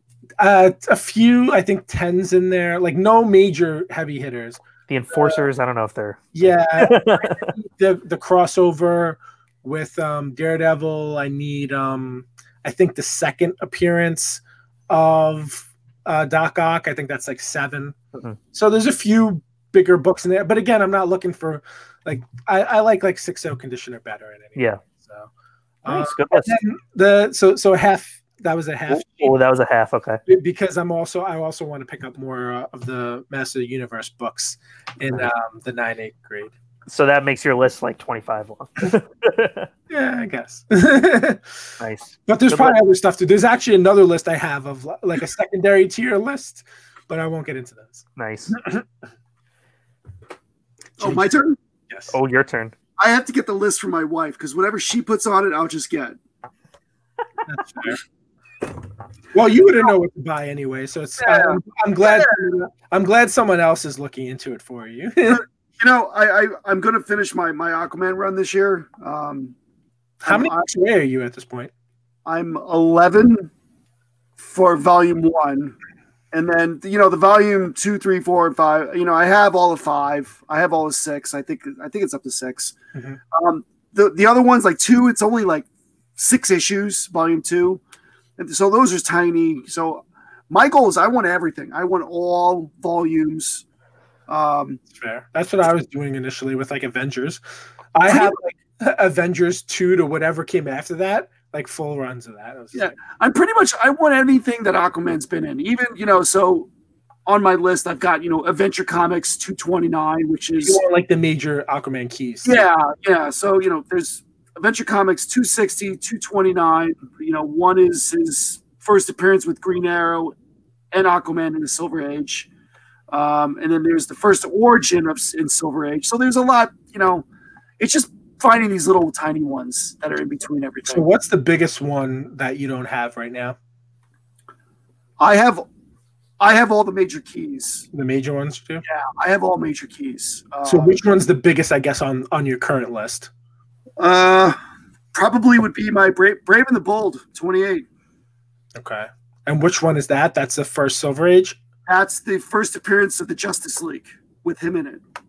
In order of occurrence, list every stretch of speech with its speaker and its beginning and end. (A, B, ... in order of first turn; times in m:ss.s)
0:00.4-0:05.4 A
0:04.9-0:06.2 B
0:06.3-0:18.0 A
0:06.8-0:07.5 B
0:18.5-0:25.3 A
0:24.6-0:24.8 B
0:25.8-0:29.3 A
0:25.8-0:26.6 B
0:28.9-0:30.2 B
0:30.2-0:36.5 A
0:36.9-0:39.7 B
0:39.9-0:41.5 A
0:41.8-0:42.8 B
0:42.3-0:48.9 A
0:48.2-0:48.6 B
0:51.0-0:51.3 A
0:51.0-0:51.6 C
0:51.9-0:52.2 A
0:52.1-0:52.7 B
0:53.0-0:56.2 C
0:57.4-0:58.0 A
0:59.3-1:05.4 A
1:01.2-1:02.3 C
1:05.8-1:09.5 C
1:10.2-1:11.7 A
1:10.2-1:10.5 C
1:12.2-1:13.5 C
1:14.4-1:15.8 C
1:16.3-1:22.8 C
1:23.3-1:27.8 C
1:28.4-1:33.6 C
1:34.3-1:34.8 C
1:34.9-1:37.4 A
1:37.9-1:42.9 A
1:42.7-1:46.7 C
1:47.2-1:50.8 C
1:50.6-1:52.6 A
1:52.4-2:00.3 C
2:00.9-2:02.5 C
2:03.1-2:07.2 C
2:07.8-2:11.0 C
2:10.9-2:13.6 A
2:15.2-2:15.6 C
2:16.4-2:17.9 C
2:17.9-2:18.8 A
2:18.8-2:20.9 C
2:20.6-2:23.3 A
2:24.0-2:24.6 C
2:25.1-2:27.8 C
2:28.7-2:31.6 A
2:31.8-2:35.0 C